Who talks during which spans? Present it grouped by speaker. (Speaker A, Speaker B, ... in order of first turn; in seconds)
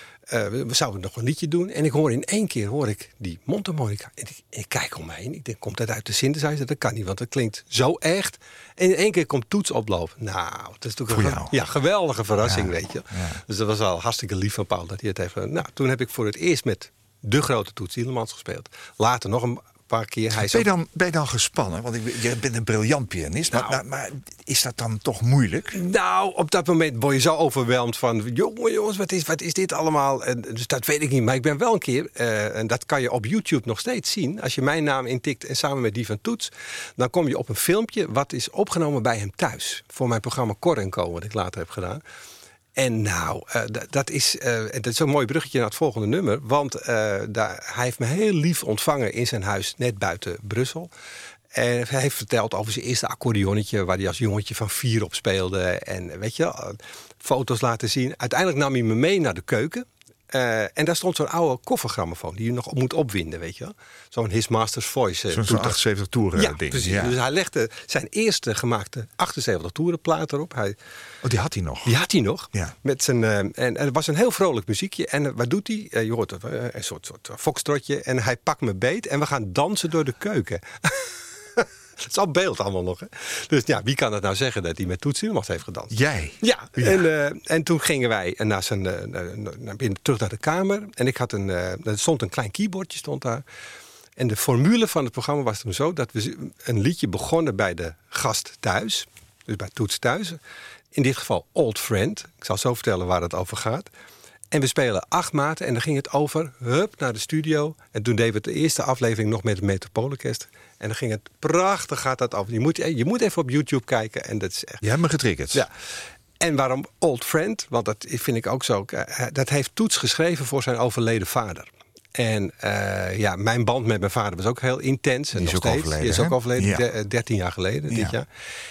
Speaker A: 0.3-20.6, 23.5-23.8, 25.7-42.0, 42.8-50.9, 51.5-65.8, 66.3-70.8, 71.8-93.4, 94.2-100.4, 100.9-103.9, 104.5-114.8, 116.4-128.3
Speaker B: 11.1-11.5, 12.4-13.4, 20.3-25.8, 65.3-67.2, 71.2-72.0, 85.9-87.0, 114.8-115.7, 125.3-126.9, 127.9-128.2